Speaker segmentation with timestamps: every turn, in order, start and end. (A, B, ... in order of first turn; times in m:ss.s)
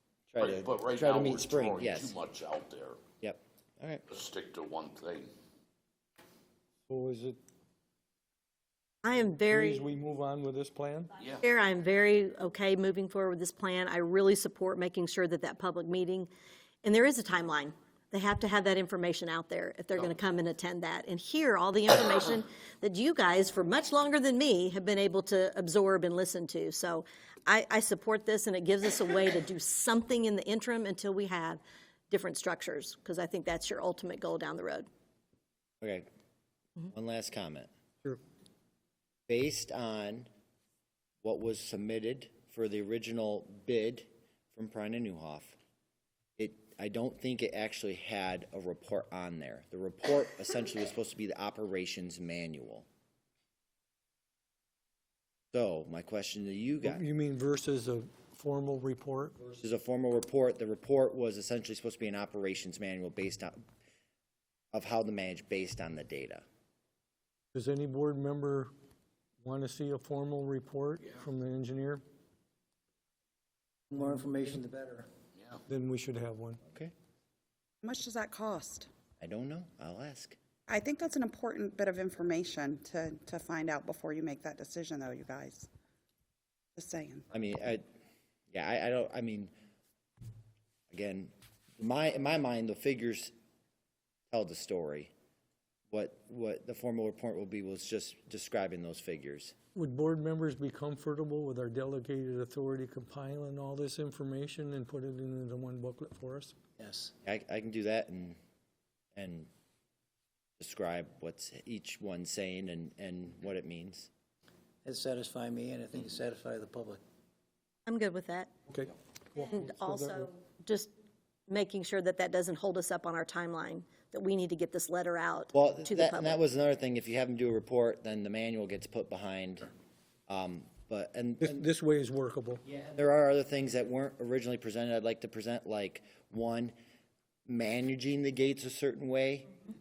0:00.3-0:02.1 A
0:00.4-0:03.0 B
0:03.2-0:04.0 A
0:04.1-0:05.3 B
0:06.9-0:07.4 C
0:09.0-0:09.8 D
0:09.5-0:11.1 C
0:11.2-0:11.4 B
0:11.4-0:16.3 D
0:16.8-0:34.9 D
0:35.8-0:36.0 A
0:36.9-0:37.7 A
0:39.3-0:40.3 A
0:41.2-0:45.6 A
0:46.4-0:52.8 A
0:55.5-0:57.0 A
0:56.8-0:59.4 C
0:59.6-1:03.6 A
1:04.7-1:06.4 A
1:07.5-1:08.7 C
1:09.4-1:12.0 C
1:13.9-1:15.1 E
1:15.6-1:16.6 C
1:17.8-1:18.9 F
1:19.2-1:20.4 A
1:20.7-1:25.7 F
1:26.8-1:27.2 F
1:27.3-1:27.8 A
1:28.5-1:29.5 A
1:30.9-1:33.3 A
1:34.3-1:35.1 A
1:35.9-1:39.5 A
1:39.7-1:46.5 C
1:46.8-1:47.1 E
1:47.2-1:48.4 A
1:49.1-1:49.5 A
1:50.6-1:54.1 A
1:54.8-1:57.0 E
1:57.8-1:58.5 D
1:58.7-2:00.3 C
1:59.4-2:00.9 D
2:01.5-2:06.4 D
2:05.5-2:09.7 A
2:10.3-2:11.6 A
2:11.4-2:12.6 C
2:12.7-2:16.7 A
2:17.5-2:19.5 A